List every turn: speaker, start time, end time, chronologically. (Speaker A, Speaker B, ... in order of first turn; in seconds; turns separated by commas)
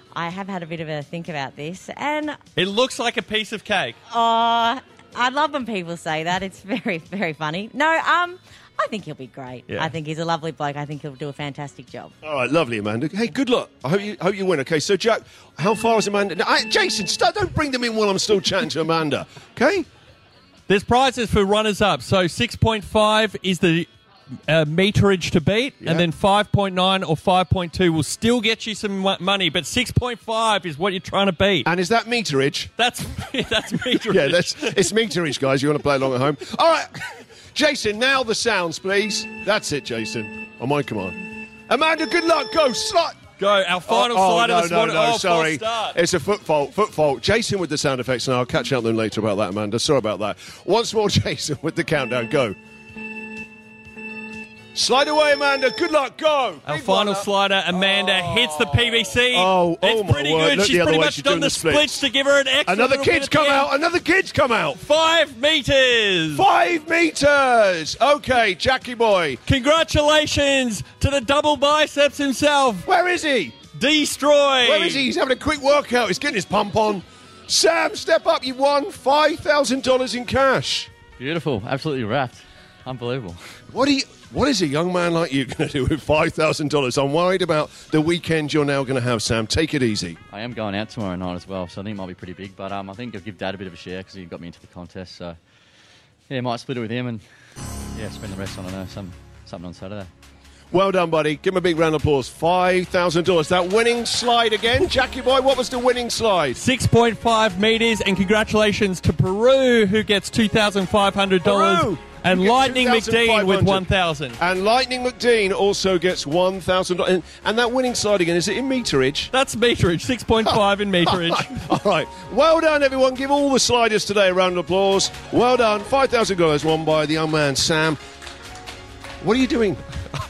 Speaker A: 0.1-2.4, Speaker B: 2.6-4.0, Speaker A: 4.1-12.1, Speaker C: 12.2-19.9, Speaker B: 20.7-23.9, Speaker B: 24.5-31.7, Speaker C: 31.7-32.7, Speaker B: 32.8-34.9, Speaker C: 34.1-41.2, Speaker C: 41.7-43.2, Speaker B: 43.4-46.0, Speaker C: 43.9-52.6, Speaker C: 54.7-57.3, Speaker B: 56.7-63.7, Speaker C: 57.8-62.0, Speaker C: 62.6-64.8, Speaker B: 64.8-66.4, Speaker C: 66.3-69.4, Speaker B: 69.5-72.9, Speaker C: 72.8-73.6, Speaker B: 73.8-75.1, Speaker C: 74.6-80.9, Speaker D: 81.2-83.4, Speaker C: 83.7-90.2, Speaker D: 90.3-95.4, Speaker D: 96.3-97.2, Speaker D: 97.9-100.1, Speaker C: 100.7-106.6, Speaker B: 106.6-114.4, Speaker C: 111.4-113.8, Speaker C: 114.4-119.3, Speaker B: 119.3-121.6, Speaker C: 120.4-128.0, Speaker C: 129.2-129.8